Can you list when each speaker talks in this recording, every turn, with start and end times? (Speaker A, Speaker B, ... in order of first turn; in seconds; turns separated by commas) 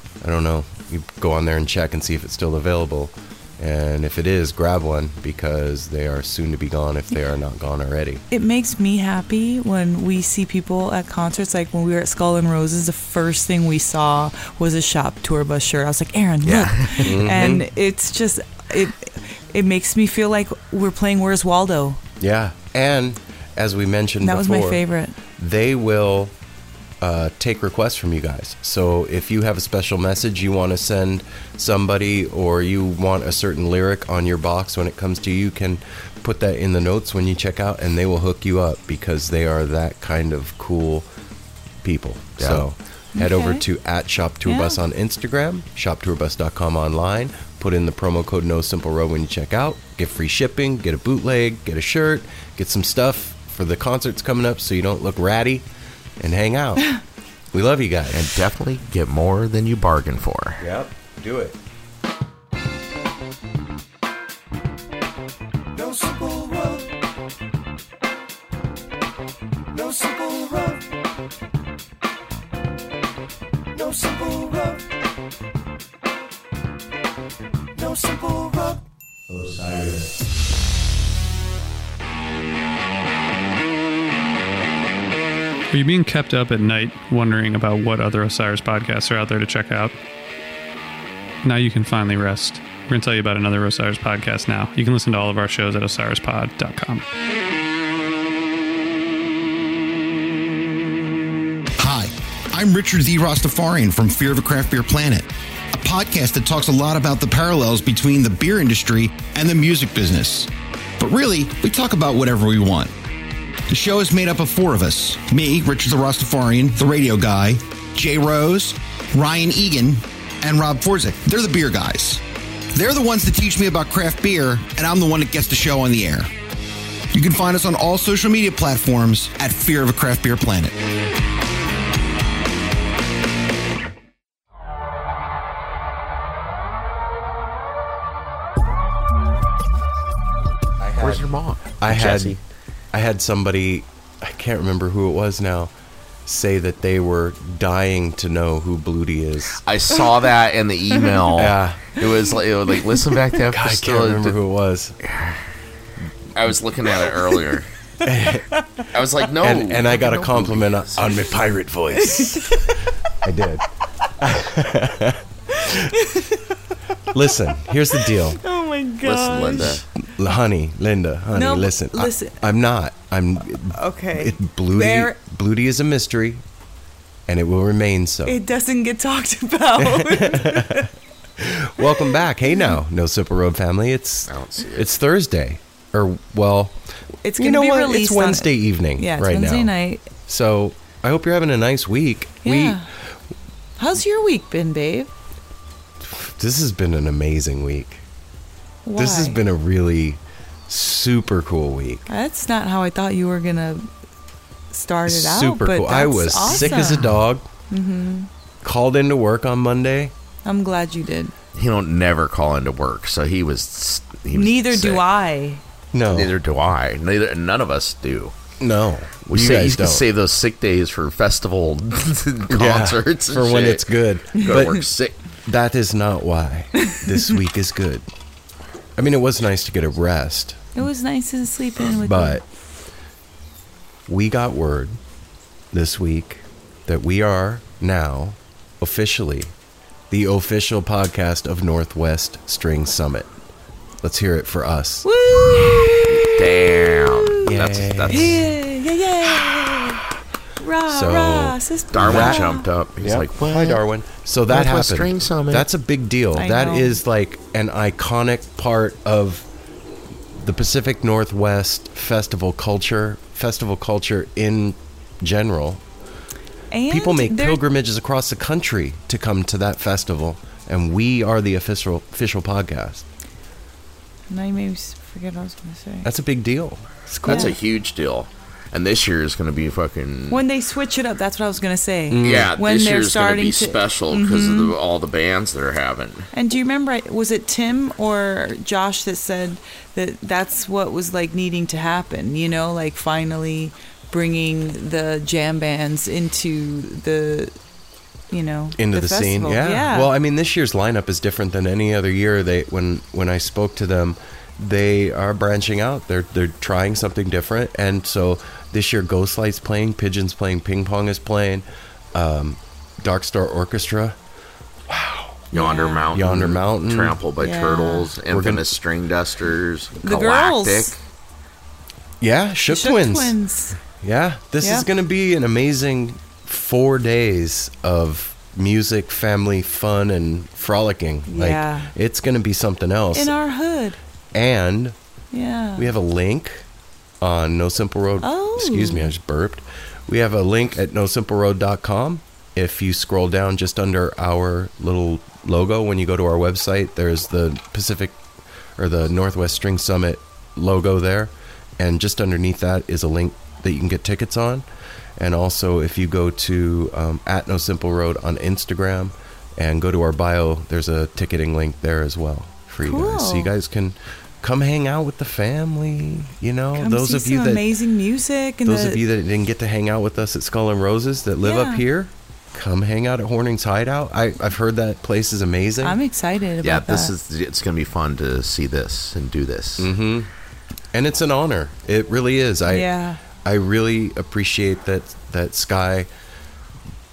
Speaker A: 0.2-8.2, Speaker B: 8.3-22.0, Speaker C: 16.4-17.3, Speaker A: 17.0-17.6, Speaker A: 22.2-24.8, Speaker B: 24.2-25.2, Speaker A: 25.4-26.3, Speaker A: 27.0-41.1, Speaker A: 41.8-55.6, Speaker C: 42.4-42.6, Speaker B: 43.1-43.6, Speaker B: 44.4-44.8, Speaker A: 56.2-56.9, Speaker A: 57.5-58.3, Speaker C: 58.1-60.6, Speaker A: 60.6-61.5, Speaker D: 65.8-66.8, Speaker D: 69.7-70.7, Speaker D: 73.8-74.8, Speaker D: 77.8-78.8, Speaker E: 85.7-89.9, Speaker E: 91.4-97.0, Speaker F: 101.8-112.9, Speaker F: 113.7-122.2, Speaker F: 122.7-126.3, Speaker F: 127.1-130.7, Speaker A: 140.8-141.2, Speaker C: 141.0-142.4, Speaker A: 141.8-142.4, Speaker A: 142.9-145.7, Speaker A: 146.2-149.6, Speaker C: 149.6-154.4, Speaker A: 151.3-151.9, Speaker A: 153.5-154.9, Speaker C: 155.0-155.4, Speaker C: 156.3-157.7, Speaker A: 158.0-158.4, Speaker C: 158.9-161.2, Speaker A: 159.4-162.5, Speaker B: 162.0-162.5, Speaker A: 163.2-163.6, Speaker A: 164.2-165.9, Speaker B: 165.7-166.4, Speaker A: 167.1-168.4, Speaker B: 167.9-169.8, Speaker C: 169.0-169.8, Speaker A: 170.2-176.4, Speaker B: 171.3-172.4, Speaker B: 173.7-175.2, Speaker A: 177.3-178.3, Speaker B: 178.2-180.9, Speaker A: 179.8-186.8, Speaker C: 184.3-184.9, Speaker B: 187.2-190.1, Speaker A: 187.4-189.7, Speaker A: 190.3-192.8, Speaker B: 192.4-192.9, Speaker B: 193.8-195.1, Speaker A: 196.0-198.0, Speaker B: 198.8-199.4, Speaker A: 198.9-202.1, Speaker B: 202.1-203.9, Speaker B: 204.7-207.1, Speaker A: 205.1-207.4, Speaker B: 207.7-208.3, Speaker A: 208.6-210.1, Speaker B: 210.4-211.3, Speaker C: 211.5-215.0, Speaker B: 214.3-215.6, Speaker A: 215.9-216.3, Speaker C: 216.1-218.3, Speaker A: 218.6-220.0, Speaker C: 219.3-225.1, Speaker A: 222.5-224.8, Speaker B: 224.4-224.8, Speaker A: 225.4-228.1, Speaker B: 226.8-227.1, Speaker A: 229.0-230.8, Speaker B: 230.7-232.4, Speaker A: 231.9-232.4, Speaker A: 234.1-235.0, Speaker A: 235.7-239.5, Speaker A: 240.1-243.3, Speaker A: 244.0-245.1, Speaker B: 245.0-246.4, Speaker C: 246.1-248.4, Speaker A: 247.4-248.4, Speaker B: 248.1-250.0, Speaker B: 250.6-252.7, Speaker A: 250.9-252.4, Speaker C: 251.9-253.8, Speaker A: 253.0-259.5, Speaker C: 254.5-255.7, Speaker B: 256.4-257.0, Speaker A: 260.3-265.8, Speaker B: 266.7-267.6, Speaker A: 266.9-273.1, Speaker B: 274.3-276.1, Speaker A: 276.0-277.6, Speaker B: 277.2-277.5, Speaker C: 277.2-280.4, Speaker B: 280.3-284.7, Speaker A: 282.1-282.5, Speaker C: 282.2-286.3, Speaker B: 286.3-297.5, Speaker B: 298.3-300.1, Speaker A: 298.8-314.2, Speaker A: 314.9-315.4, Speaker C: 315.5-321.0, Speaker B: 315.5-316.1, Speaker A: 316.1-317.2, Speaker B: 317.4-318.1, Speaker A: 318.3-318.7, Speaker B: 320.0-321.0, Speaker A: 322.2-323.4, Speaker B: 322.7-323.8, Speaker A: 324.0-333.3, Speaker B: 324.6-324.9, Speaker B: 331.3-331.9, Speaker B: 333.1-334.0, Speaker A: 334.3-334.9, Speaker B: 335.3-335.9, Speaker A: 335.8-336.6, Speaker A: 337.2-348.2, Speaker B: 338.2-339.1, Speaker A: 348.8-354.6, Speaker A: 355.2-367.7, Speaker B: 362.8-363.5, Speaker B: 366.8-369.0, Speaker A: 368.6-376.0, Speaker B: 371.4-371.8, Speaker B: 375.8-377.1, Speaker C: 376.6-379.9, Speaker A: 379.8-380.3, Speaker A: 380.9-382.9, Speaker B: 382.7-383.2, Speaker A: 383.4-386.1